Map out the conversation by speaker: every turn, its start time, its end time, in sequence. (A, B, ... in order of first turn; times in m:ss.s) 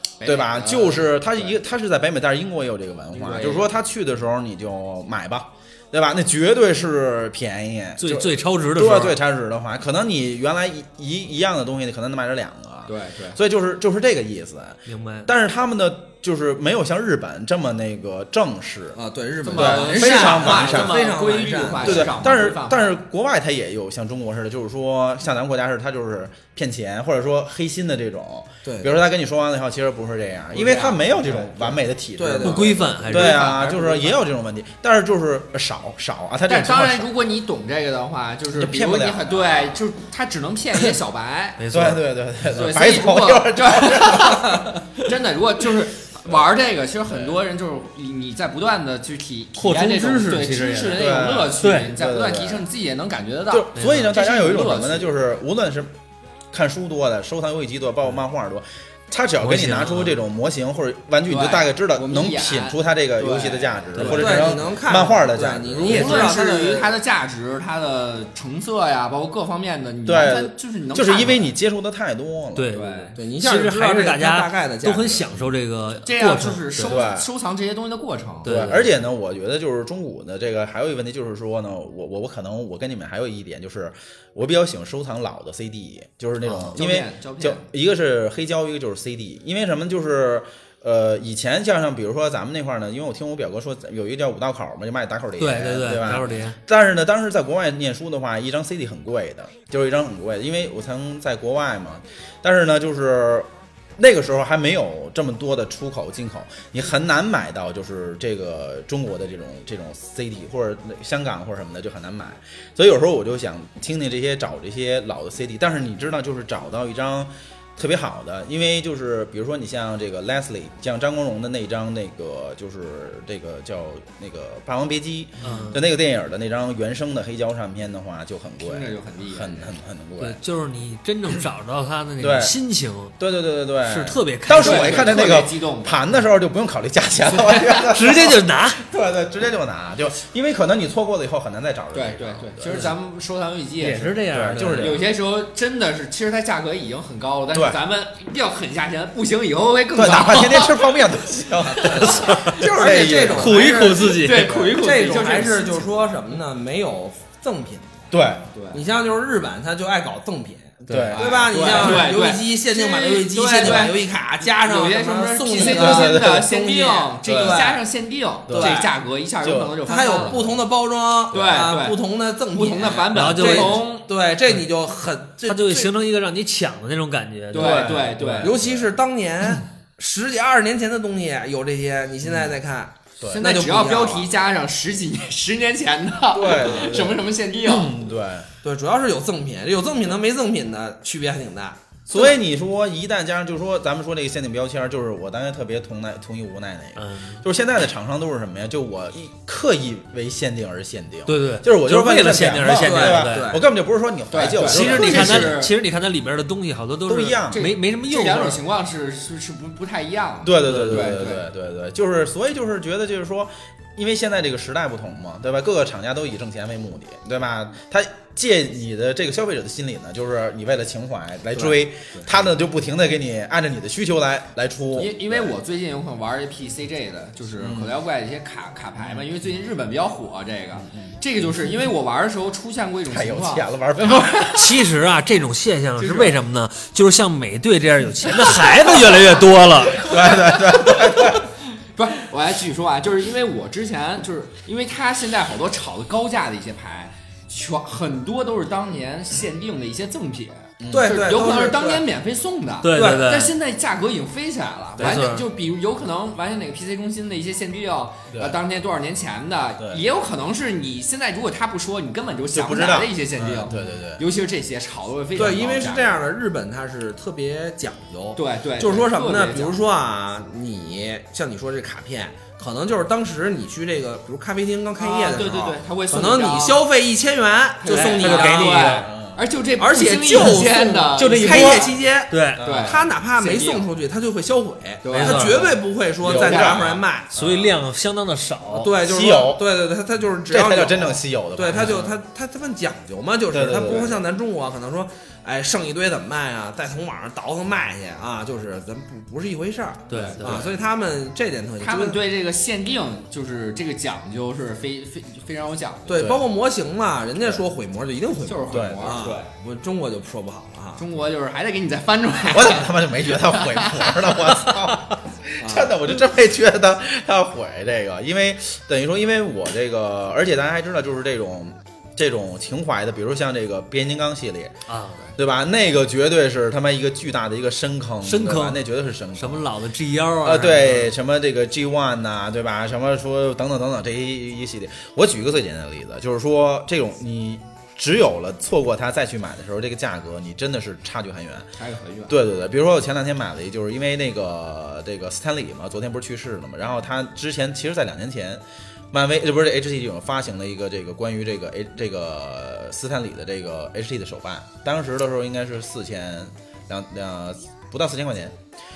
0:00.2-0:01.6 A
0:00.2-0:19.0 B
0:03.1-0:03.7 A
0:08.0-0:09.2 C
0:12.9-0:13.4 A
0:14.9-0:15.3 C
0:18.9-0:22.1 D
0:19.4-0:22.9 A
0:19.5-0:21.0 B
0:21.8-0:37.1 B
0:28.6-0:29.0 D
0:30.5-0:31.8 A
0:32.2-0:33.2 D
0:32.4-0:33.6 C
0:33.1-0:34.1 A
0:36.5-0:41.6 A
0:38.5-0:39.7 B
0:41.6-0:42.0 C
0:41.7-0:44.8 B
0:42.5-0:55.2 A
0:47.1-0:47.4 B
0:49.6-0:51.9 C
0:50.9-0:52.7 B
0:53.5-0:55.9 B
0:53.7-0:54.1 C
0:56.5-1:06.3 B
0:59.4-1:00.2 C
1:01.3-1:04.5 A
1:04.0-1:04.3 C
1:04.0-1:07.0 D
1:05.8-1:11.5 A
1:05.9-1:06.2 C
1:10.0-1:12.8 B
1:12.5-1:17.0 C
1:12.7-1:13.2 A
1:13.2-1:15.3 D
1:16.0-1:18.8 A
1:16.8-1:17.3 B
1:18.4-1:18.9 C
1:18.4-2:10.4 B
1:26.4-1:27.7 A
1:35.4-1:36.6 C
2:05.4-2:05.8 C
2:05.4-2:05.7 A
2:08.6-2:09.7 A
2:10.2-2:13.1 C
2:12.2-2:12.6 B
2:13.2-2:22.9 B
2:13.8-2:15.4 C
2:14.6-2:16.0 A
2:17.3-2:17.8 A
2:17.9-2:18.8 C
2:21.9-2:24.2 A
2:22.7-2:22.9 C
2:23.8-2:25.0 C
2:24.3-2:25.0 B
2:24.8-2:30.8 A
2:27.5-2:27.8 B
2:29.9-2:33.7 B
2:31.8-2:36.1 A
2:31.8-2:38.1 D
2:32.0-2:32.6 C
2:33.3-2:34.7 C
2:34.3-2:34.7 B
2:38.1-2:38.5 B
2:38.5-2:38.8 A
2:38.7-2:47.8 D
2:40.9-2:42.1 B
2:41.1-2:50.5 A
2:45.5-2:46.6 B
2:47.2-2:47.6 B
2:48.5-2:48.9 B
2:48.5-2:48.9 D
2:49.4-2:49.8 B
2:49.8-2:55.9 D
2:51.3-2:52.0 A
2:52.5-2:54.0 A
2:53.1-2:53.8 C
2:55.4-2:58.2 C
2:57.5-2:58.5 A
2:57.5-2:58.9 B
2:58.4-3:04.3 D
3:02.2-3:02.5 B
3:03.3-3:07.9 A
3:06.3-3:08.5 B
3:06.6-3:06.9 D
3:08.6-3:11.8 D
3:12.1-3:25.6 B
3:17.0-3:17.4 C
3:21.2-3:23.5 C
3:22.6-3:23.6 D
3:24.3-3:25.7 A
3:24.6-3:28.6 C
3:27.0-3:27.7 B
3:27.5-3:31.4 A
3:30.4-3:45.5 B
3:30.6-3:31.2 C
3:44.9-3:54.6 A
3:47.6-3:48.0 B
3:53.1-3:54.7 B
3:54.5-4:00.2 C
3:56.0-3:56.3 A
4:00.0-4:01.5 B
4:01.9-4:26.2 A
4:10.8-4:11.2 B
4:10.9-4:12.0 D
4:12.8-4:13.5 C
4:12.9-4:13.3 D
4:15.0-4:15.3 B
4:15.0-4:15.5 C
4:18.3-4:18.6 B
4:22.5-4:24.2 B
4:25.4-4:38.9 D
4:28.4-4:29.8 A
4:35.0-4:36.8 A
4:37.8-4:41.9 A
4:37.9-4:39.1 C
4:39.0-4:39.4 B
4:39.8-4:47.4 D
4:41.3-4:42.6 C
4:42.6-4:43.0 B
4:42.6-4:43.8 A
4:45.0-4:46.8 A
4:45.1-4:45.7 C
4:46.2-4:47.7 B
4:47.3-4:48.9 C
4:48.7-5:02.2 D
4:49.0-4:49.6 B
4:50.5-4:52.1 B
4:53.5-4:54.2 B
5:00.1-5:00.6 C
5:00.1-5:00.4 A
5:00.4-5:00.7 B
5:01.8-5:06.2 A
5:06.1-5:11.0 D
5:06.1-5:06.4 B
5:08.4-5:09.5 A
5:08.7-5:09.3 B
5:11.0-5:14.1 A
5:12.5-5:24.8 B
5:15.6-5:16.0 D
5:24.9-5:25.2 C
5:25.4-5:29.7 B
5:28.2-5:28.8 C
5:29.4-5:31.1 C
5:30.4-5:41.7 B
5:41.8-5:42.4 A
5:42.3-5:58.6 B